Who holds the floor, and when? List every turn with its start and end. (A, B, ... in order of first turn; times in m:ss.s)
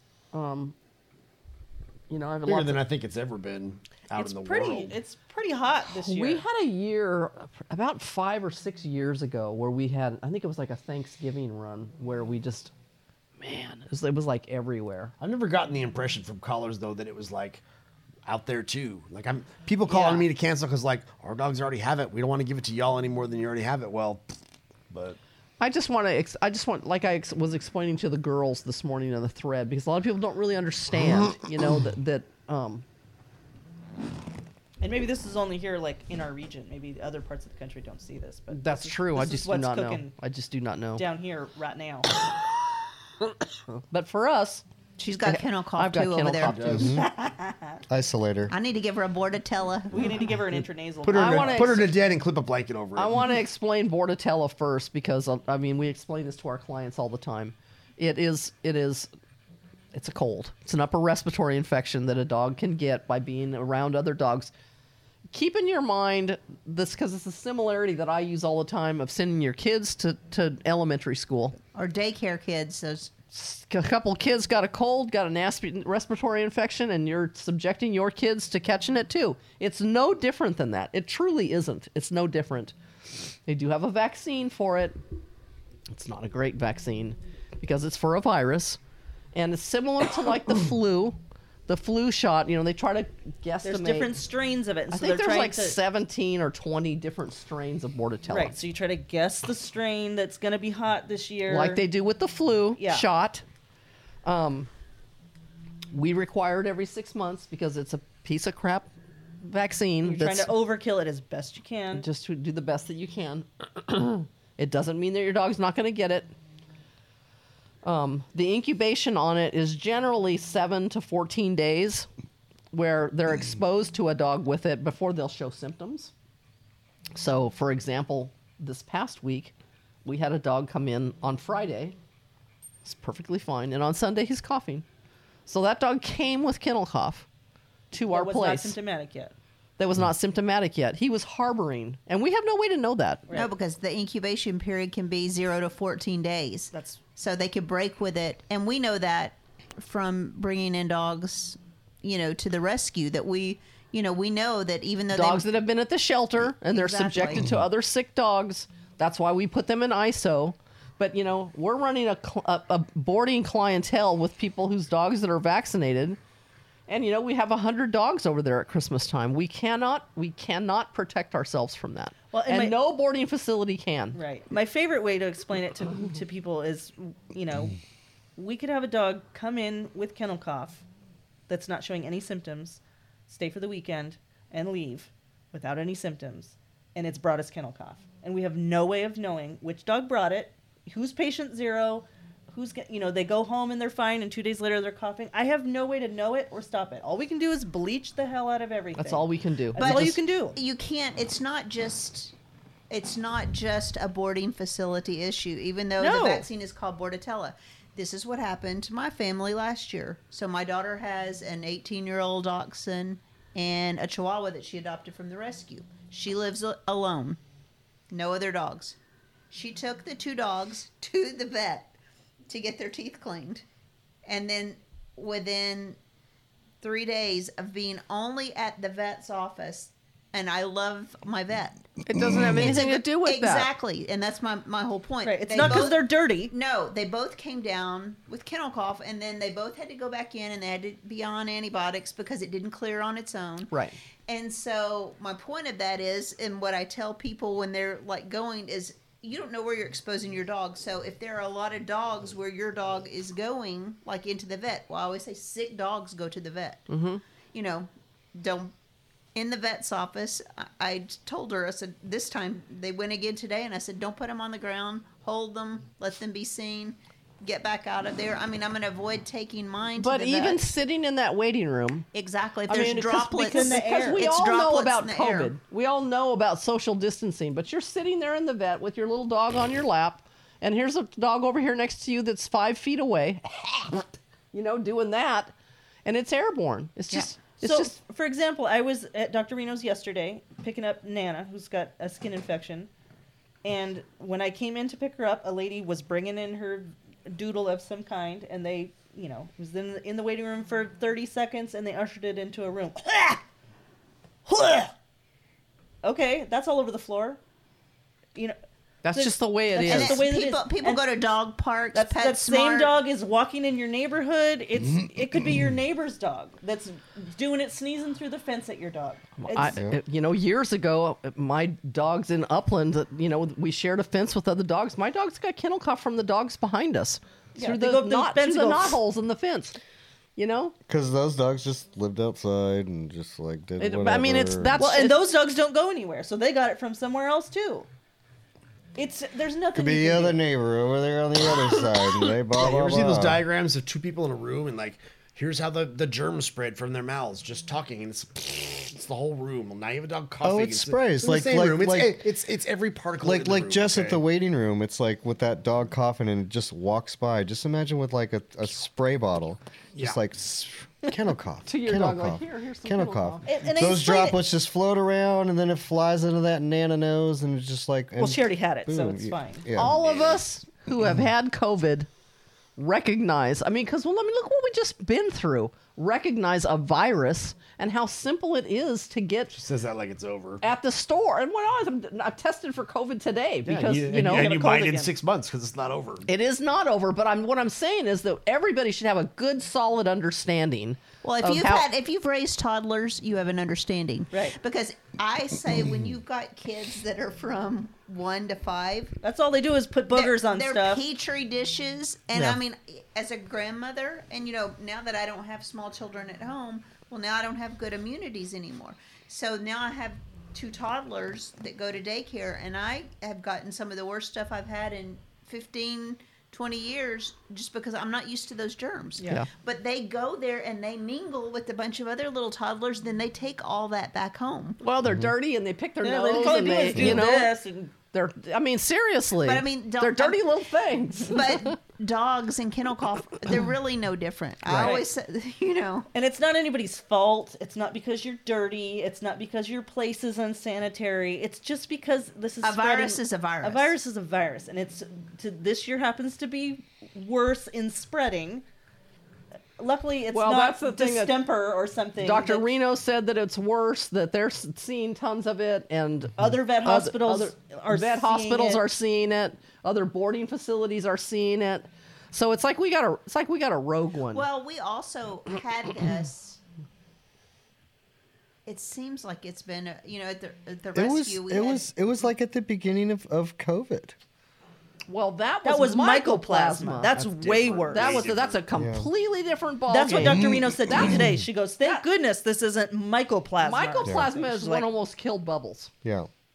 0:00.3-0:00.7 A
0:02.1-0:02.8 A
0:02.4-0:05.0 B
0:04.1-0:06.4 C
0:05.9-0:12.7 A
0:13.4-0:15.1 A
0:15.2-0:17.6 B
0:18.2-0:24.2 B
0:19.9-0:20.3 A
0:24.9-0:25.2 B
0:25.6-0:32.8 A
0:31.0-0:31.5 B
0:34.8-0:40.1 C
0:38.5-0:41.0 A
0:41.0-0:42.1 C
0:43.9-0:44.6 A
0:45.0-0:47.0 D
0:45.2-0:46.9 A
0:46.5-0:46.8 B
0:46.6-0:47.1 E
0:46.9-0:47.8 C
0:47.9-0:48.5 E
0:48.5-0:50.2 D
0:49.9-0:51.9 C
0:51.0-0:53.3 B
0:51.1-0:51.9 A
0:53.0-0:59.1 A
0:59.9-1:04.5 A
1:05.3-1:11.6 A
1:11.7-1:13.1 D
1:13.3-1:22.7 A
1:23.4-1:25.0 A
1:25.9-1:28.8 A
1:29.3-1:34.1 A
1:33.6-1:35.8 C
1:34.9-1:38.6 A
1:38.3-1:41.8 C
1:41.5-1:43.4 A
1:42.8-1:43.0 C
1:44.2-1:44.7 A
1:45.9-1:48.9 A
1:49.4-1:50.5 A
1:50.0-1:52.0 C
1:51.9-1:56.3 A
1:57.8-2:02.1 A
2:02.7-2:06.1 A
2:07.1-2:09.5 A
2:10.0-2:12.0 A
2:12.8-2:14.8 A
2:15.5-2:17.3 A
2:17.9-2:18.8 A
2:18.0-2:19.3 C
2:19.8-2:23.3 A
2:23.3-2:35.4 D
2:26.7-2:27.0 C
2:35.1-2:46.2 A
2:36.6-2:37.5 D
2:46.9-2:54.2 A
2:52.3-2:52.8 C
2:54.1-2:57.8 C
2:58.4-3:00.8 C
3:01.5-3:20.6 C
3:19.0-3:20.2 A
3:19.8-3:22.3 D
3:22.9-3:37.4 D
3:26.0-3:26.5 C
3:38.1-3:39.0 D
3:39.5-3:41.9 D
3:42.5-3:43.6 D
3:44.2-3:46.0 D
3:46.8-3:51.9 D
3:52.0-3:53.7 A
3:52.6-4:03.7 D
3:55.2-3:56.5 C
4:03.7-4:04.0 A
4:04.2-4:16.9 D
4:16.9-4:17.2 A
4:17.5-4:18.7 D
4:19.3-4:30.7 D
4:30.0-4:32.1 A
4:32.1-4:35.5 D
4:32.7-4:45.5 A
4:33.4-4:34.3 C
4:46.0-4:48.0 A
4:47.6-4:52.9 C
4:53.6-5:03.4 C
5:04.4-5:04.9 C
5:06.0-5:07.4 C
5:09.0-5:10.3 A
5:09.1-5:11.1 C
5:09.8-5:12.9 D
5:11.9-5:19.8 C
5:19.4-5:29.8 A
5:27.6-5:29.0 C
5:30.4-5:30.8 A
5:30.9-5:34.8 E
5:33.8-5:35.2 A
5:34.8-5:37.9 C
5:39.0-5:40.4 C
5:39.7-5:43.4 E
5:42.5-5:54.2 B
5:50.4-5:52.3 E
5:53.2-6:09.9 E
5:59.9-6:00.2 B
6:01.6-6:03.5 A
6:03.4-6:04.4 C
6:08.2-6:09.6 C
6:09.8-6:12.1 A
6:09.8-6:10.4 B
6:12.8-6:19.6 A
6:19.5-6:20.6 B
6:20.6-6:24.5 A
6:23.6-6:26.2 B
6:24.3-6:25.1 C
6:26.2-6:31.9 A
6:31.2-6:39.1 D
6:34.3-6:34.6 C
6:39.2-6:41.0 C
6:40.1-7:04.8 D
6:59.2-6:59.4 C
7:04.8-7:07.6 A
7:06.0-7:07.9 C
7:06.9-7:07.2 E
7:08.1-7:11.7 A
7:09.4-7:10.5 D
7:11.2-7:16.1 D
7:14.6-7:15.0 A
7:14.7-7:15.0 C
7:16.1-7:28.6 C
7:22.6-7:24.0 D
7:29.8-7:32.6 C
7:30.3-7:31.4 A
7:32.2-7:44.4 A
7:36.4-7:38.8 C
7:44.3-7:46.6 D
7:48.6-7:51.9 D
7:50.9-7:54.2 E
7:55.1-7:57.1 A
7:55.6-7:58.3 C
7:57.1-7:58.6 B
7:57.9-8:01.2 A
7:58.7-7:59.1 E
7:59.9-8:04.9 C
8:00.2-8:01.3 E
8:03.6-8:05.9 A
8:04.0-8:04.3 E
8:06.0-8:06.3 E